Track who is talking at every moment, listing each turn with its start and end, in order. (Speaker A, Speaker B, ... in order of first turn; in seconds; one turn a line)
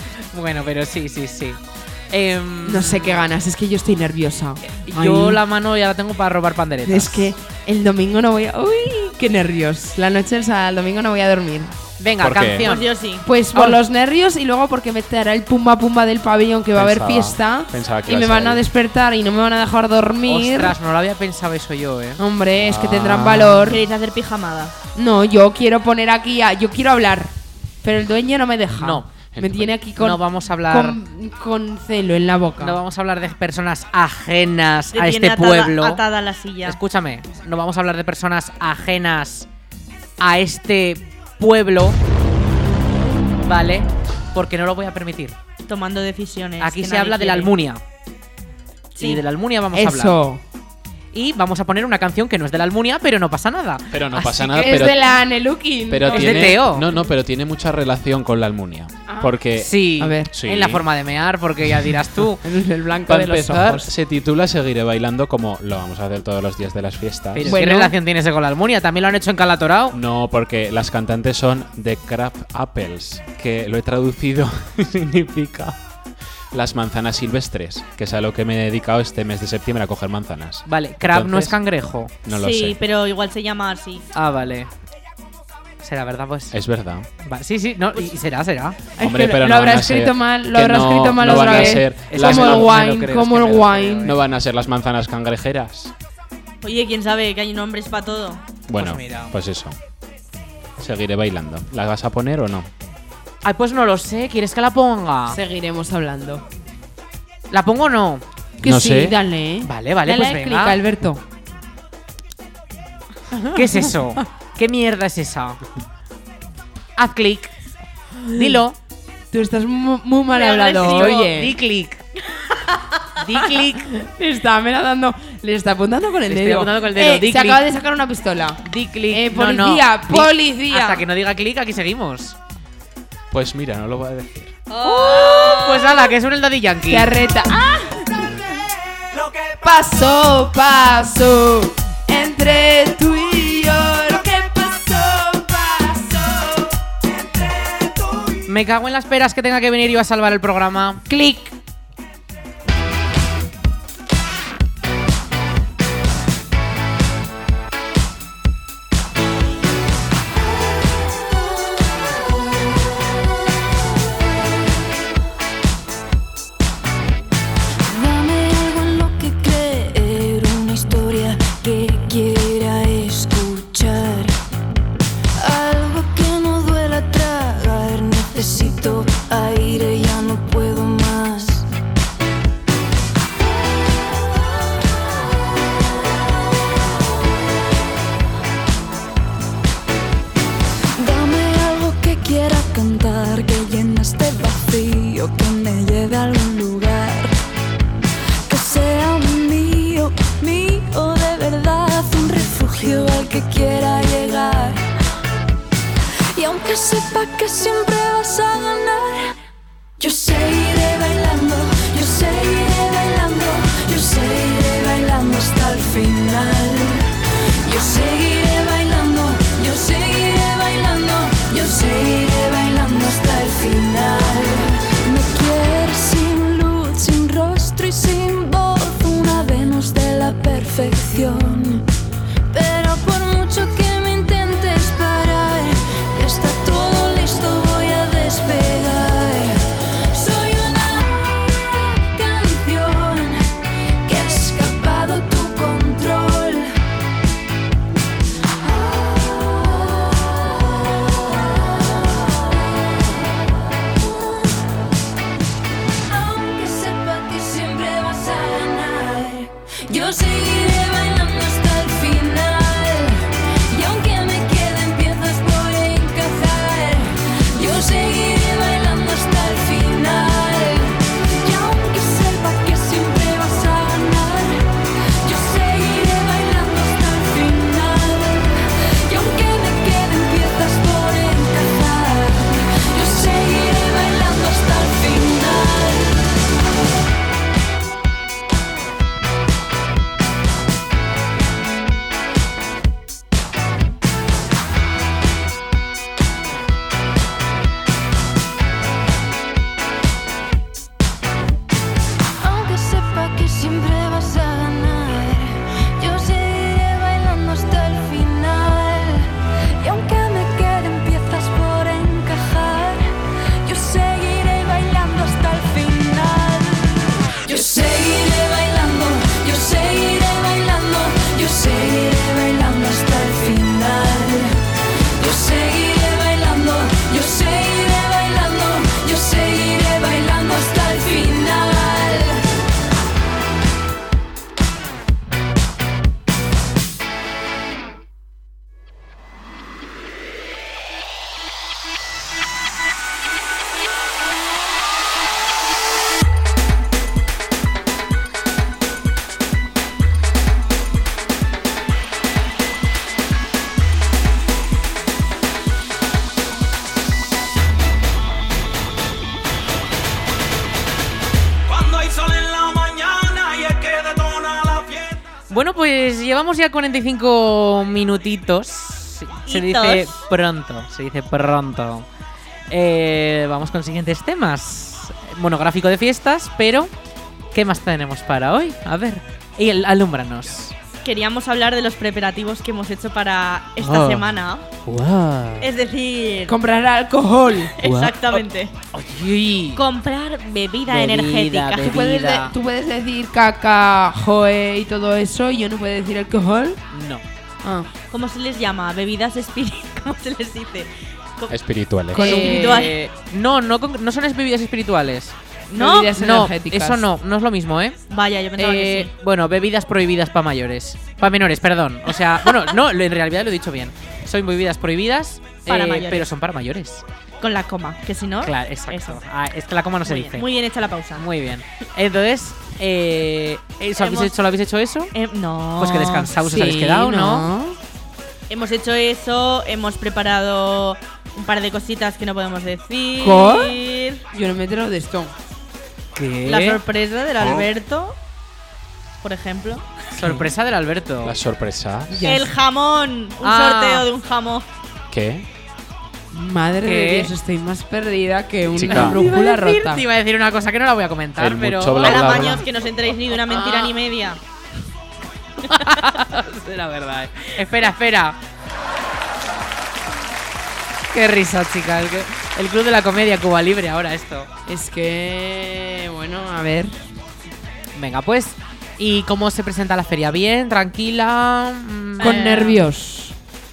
Speaker A: 0.3-3.2
Speaker B: 2.6-5.4
Speaker A: 4.9-7.3
Speaker B: 6.8-11.8
Speaker A: 12.0-12.9
Speaker C: 12.2-12.7
Speaker D: 12.6-13.3
Speaker B: 13.2-20.8
Speaker A: 13.5-13.8
Speaker C: 16.8-18.6
Speaker A: 20.3-22.2
Speaker B: 22.2-23.8
Speaker C: 22.6-23.8
Speaker D: 23.7-24.7
Speaker B: 24.9-32.8
Speaker A: 28.8-29.1
Speaker C: 29.3-29.7
Speaker A: 30.0-31.0
Speaker A: 32.6-36.0
Speaker D: 34.9-36.8
Speaker A: 36.6-39.5
Speaker A: 40.2-42.0
Speaker A: 43.5-45.4
Speaker D: 45.7-47.5
Speaker A: 46.6-47.8
Speaker D: 49.0-49.2
Speaker A: 49.0-50.2
Speaker B: 49.7-50.4
Speaker A: 51.1-54.9
Speaker C: 53.9-55.0
Speaker B: 54.5-56.7
Speaker C: 55.9-60.9
Speaker A: 56.0-56.9
Speaker B: 59.1-59.4
Speaker A: 59.6-62.5
Speaker B: 60.0-60.3
Speaker B: 62.4-63.9
Speaker C: 63.1-67.6
Speaker A: 67.3-70.0
Speaker B: 67.4-68.0
Speaker C: 69.9-75.8
Speaker C: 76.5-81.6
Speaker A: 80.7-82.1
Speaker C: 82.2-82.8
Speaker D: 82.3-84.0
Speaker A: 84.1-84.7
Speaker A: 85.8-86.6
Speaker C: 86.5-87.1
Speaker A: 87.2-88.8
Speaker B: 89.0-94.2
Speaker C: 89.0-92.9
Speaker A: 91.2-94.2
Speaker C: 94.0-95.9
Speaker D: 96.6-98.4
Speaker C: 98.7-99.8
Speaker A: 98.7-99.3
Speaker C: 100.8-102.7
Speaker A: 103.4-105.4
Speaker B: 105.3-106.5
Speaker A: 107.5-108.2
Speaker B: 108.6-111.2
Speaker C: 108.6-109.2
Speaker A: 109.6-110.8
Speaker A: 113.5-115.6
Speaker A: 117.0-117.5
Speaker B: 118.2-118.6
Speaker A: 118.3-118.8
Speaker B: 119.3-121.6
Speaker D: 120.3-121.3
Speaker A: 120.8-122.0
Speaker D: 122.3-123.0
Speaker A: 123.2-123.9
Speaker B: 123.9-131.1
Speaker A: 126.3-127.6
Speaker A: 128.7-132.4
Speaker C: 133.3-134.6
Speaker A: 134.8-137.1
Speaker D: 134.9-136.0
Speaker B: 136.9-138.2
Speaker E: 139.1-139.6
Speaker B: 139.6-146.3
Speaker E: 145.9-146.5
Speaker E: 147.0-148.4
Speaker A: 148.5-151.1
Speaker B: 151.1-151.5
Speaker F: 167.9-174.4
Speaker F: 175.3-181.7
Speaker F: 191.0-197.3
Speaker F: 198.5-204.8
Speaker F: 206.3-209.3
Speaker F: 210.0-217.1
Speaker F: 217.6-231.9
Speaker F: 232.5-243.5
Speaker F: 244.1-246.8
Speaker F: 248.7-253.1
Speaker F: 254.0-254.6
Speaker F: 256.1-286.4
Speaker F: 302.4-324.6
Speaker F: 325.2-332.5
Speaker E: 361.7-365.2
Speaker A: 365.5-372.1
Speaker D: 369.5-370.2
Speaker A: 372.7-376.9
Speaker A: 377.5-380.8
Speaker D: 381.0-384.7
Speaker A: 383.8-385.7
Speaker D: 385.6-386.6
Speaker B: 386.5-387.8
Speaker D: 387.7-388.7
Speaker A: 387.8-389.8
Speaker D: 389.8-392.0
Speaker A: 390.9-392.5
Speaker B: 391.8-396.8
Speaker A: 396.9-397.2
Speaker B: 397.6-397.9
Speaker D: 398.1-401.6
Speaker C: 401.5-402.4
Speaker D: 402.1-403.0
Speaker B: 402.1-403.0
Speaker A: 402.2-405.4
Speaker D: 405.7-406.1
Speaker B: 405.8-407.1
Speaker A: 406.1-408.0
Speaker D: 408.1-409.1
Speaker A: 408.6-417.0
Speaker D: 415.7-416.3
Speaker D: 417.4-419.2
Speaker A: 418.4-420.5
Speaker D: 420.1-421.2
Speaker A: 421.1-425.1
Speaker D: 424.0-424.4
Speaker D: 425.1-426.4
Speaker A: 425.8-427.5
Speaker B: 426.4-427.8
Speaker D: 428.5-434.2
Speaker B: 433.2-435.3
Speaker A: 436.1-436.8
Speaker D: 436.5-438.2
Speaker D: 439.2-439.9
Speaker A: 440.1-441.4
Speaker C: 441.2-442.3
Speaker B: 442.1-442.5
Speaker D: 442.2-444.7
Speaker A: 443.4-444.1
Speaker C: 445.1-445.5
Speaker B: 446.3-450.1
Speaker A: 446.8-447.3
Speaker C: 448.8-449.2
Speaker A: 448.9-452.6
Speaker C: 451.4-452.7
Speaker D: 451.9-454.4
Speaker A: 453.5-453.9
Speaker A: 455.6-458.4
Speaker A: 461.1-464.5
Speaker B: 464.7-467.1
Speaker A: 467.9-472.6
Speaker D: 472.2-472.8
Speaker B: 472.2-473.4